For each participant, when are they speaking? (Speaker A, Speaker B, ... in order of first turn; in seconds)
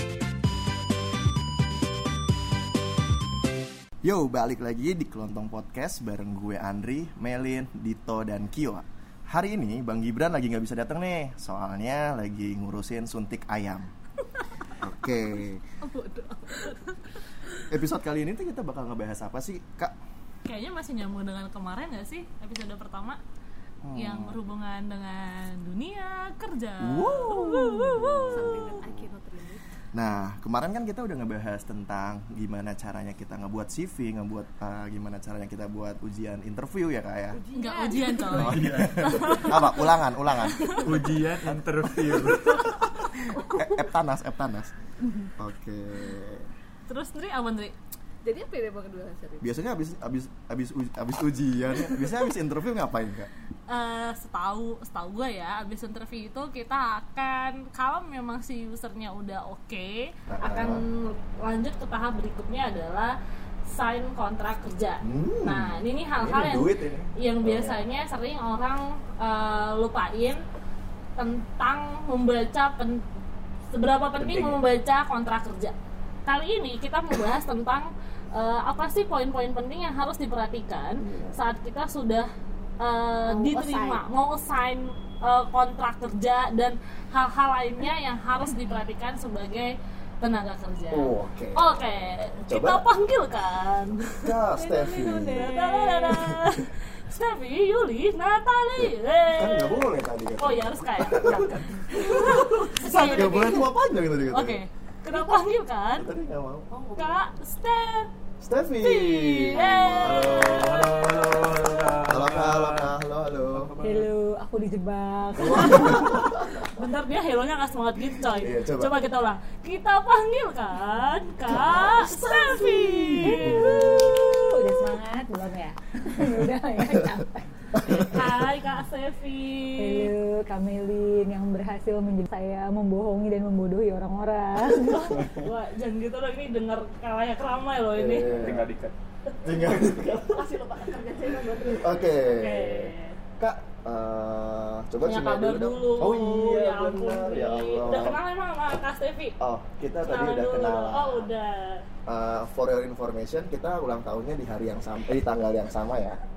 Speaker A: 4.0-13.9, 14.8-15.6, 17.7-19.9, 23.8-24.4, 26.8-29.0, 29.9-37.4, 38.4-42.9, 43.5-44.7, 45.4-46.5, 49.4-53.3, 60.3-60.8, 65.0-67.8, 81.0-81.4, 90.9-91.6, 92.5-92.8, 94.2-95.5, 96.1-96.5, 98.8-104.6, 106.0-106.7, 108.4-113.7, 115.4-116.6, 118.3-119.0, 121.5-122.3, 123.2-124.2, 127.7-128.3, 135.2-135.4, 137.9-138.7, 139.4-140.5, 141.8-148.2, 149.4-151.3, 152.1-156.2
Speaker B: 15.8-17.0, 28.3-29.6, 37.3-38.6, 43.3-43.9, 48.2-49.5, 83.2-84.0, 94.5-96.3, 102.9-103.6, 106.7-107.2, 121.8-122.8, 140.3-142.0
Speaker C: 20.4-23.2, 23.9-28.8, 37.5-39.9, 40.4-40.8, 46.9-47.7, 53.7-63.1, 63.7-70.4, 71.2-73.0, 73.7-75.7, 76.2-94.4, 95.3-99.8, 100.4-103.7, 104.3-106.1, 106.8-108.1, 108.8-110.9, 116.6-124.8, 127.8-130.1, 134.7-138.4, 142.2-143.2, 145.0-149.4, 150.1-151.8
Speaker D: 38.3-39.5, 40.7-42.6, 74.2-74.6, 109.9-112.9, 113.5-114.1, 138.3-138.9
Speaker E: 113.8-116.3, 123.2-128.0, 129.7-135.2